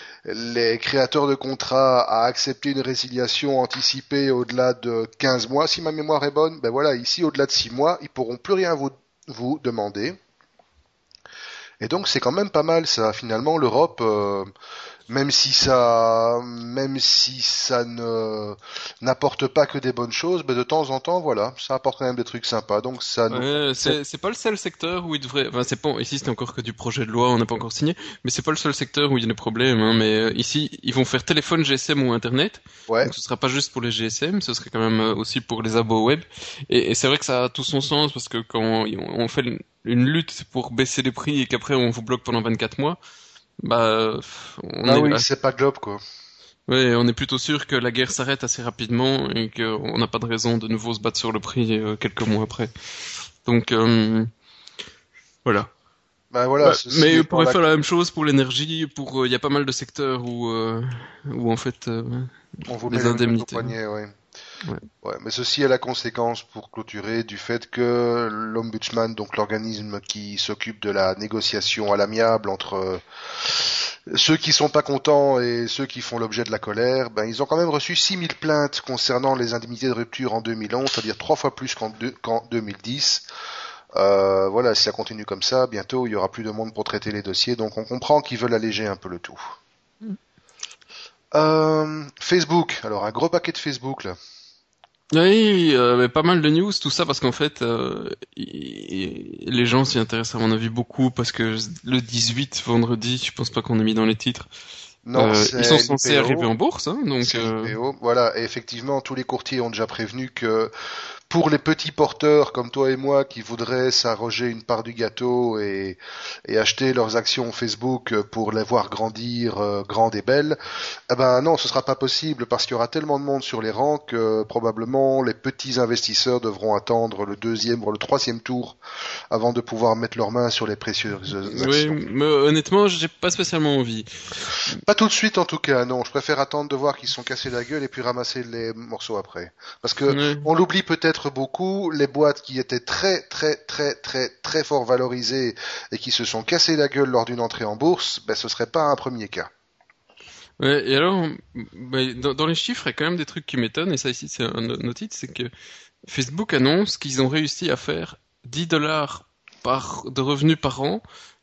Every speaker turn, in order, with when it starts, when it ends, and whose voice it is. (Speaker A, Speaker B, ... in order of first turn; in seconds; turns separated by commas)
Speaker A: 0.2-10.2, Speaker A: 11.8-14.5, Speaker A: 15.1-24.0, Speaker B: 23.3-43.0, Speaker B: 43.6-45.3, Speaker A: 44.9-46.0, Speaker B: 46.7-52.7, Speaker B: 53.5-54.3, Speaker B: 55.5-55.7, Speaker A: 56.3-57.6, Speaker B: 56.6-63.8, Speaker A: 62.7-64.2, Speaker A: 65.0-83.3, Speaker A: 84.0-89.4, Speaker A: 91.3-94.2, Speaker B: 95.1-104.5, Speaker A: 105.1-106.5, Speaker B: 105.2-107.8, Speaker A: 107.2-110.7, Speaker A: 111.3-120.6, Speaker A: 121.1-128.8, Speaker A: 129.3-132.0, Speaker B: 131.5-134.1, Speaker A: 134.8-149.5, Speaker B: 140.1-140.5, Speaker B: 150.6-155.5, Speaker B: 156.1-161.0